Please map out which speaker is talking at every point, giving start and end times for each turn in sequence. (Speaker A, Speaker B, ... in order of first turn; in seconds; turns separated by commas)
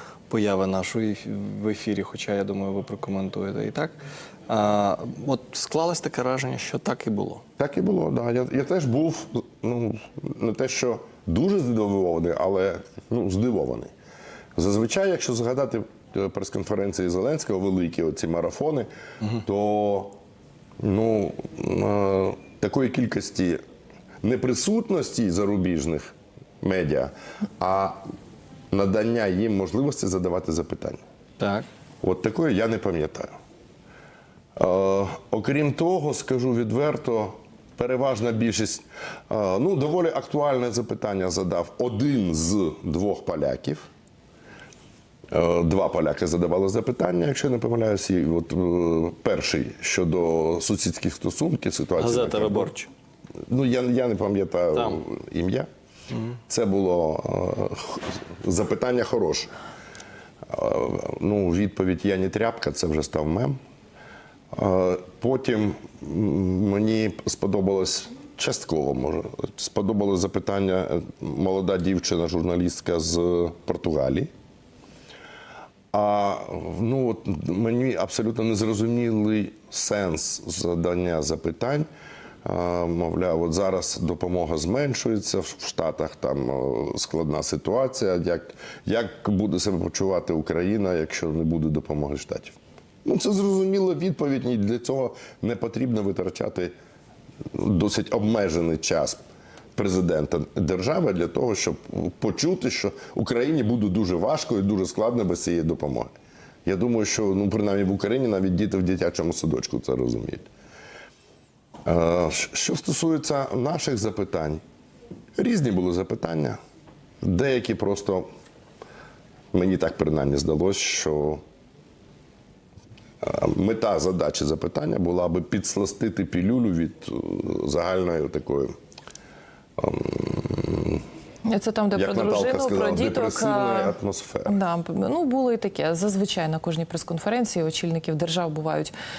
Speaker A: 0.3-3.9, Speaker A: 4.5-7.4, Speaker B: 7.6-13.9, Speaker B: 14.6-20.1, Speaker B: 20.8-23.6, Speaker B: 24.2-28.0, Speaker B: 28.7-31.0, Speaker A: 31.4-31.6, Speaker B: 32.0-33.3, Speaker B: 34.5-43.9, Speaker B: 45.3-52.7, Speaker A: 52.0-52.9, Speaker B: 53.5-55.7, Speaker B: 56.5-59.5, Speaker B: 60.5-63.6, Speaker B: 64.5-74.3, Speaker B: 75.9-81.9, Speaker B: 82.4-96.7, Speaker B: 97.5-99.2, Speaker B: 99.7-106.1, Speaker B: 106.6-110.5, Speaker B: 111.8-114.6, Speaker B: 115.3-116.6, Speaker B: 117.2-118.2, Speaker B: 119.5-121.4, Speaker B: 123.2-128.7, Speaker B: 129.8-131.0, Speaker C: 131.4-133.9, Speaker B: 131.9-134.6, Speaker C: 134.4-138.9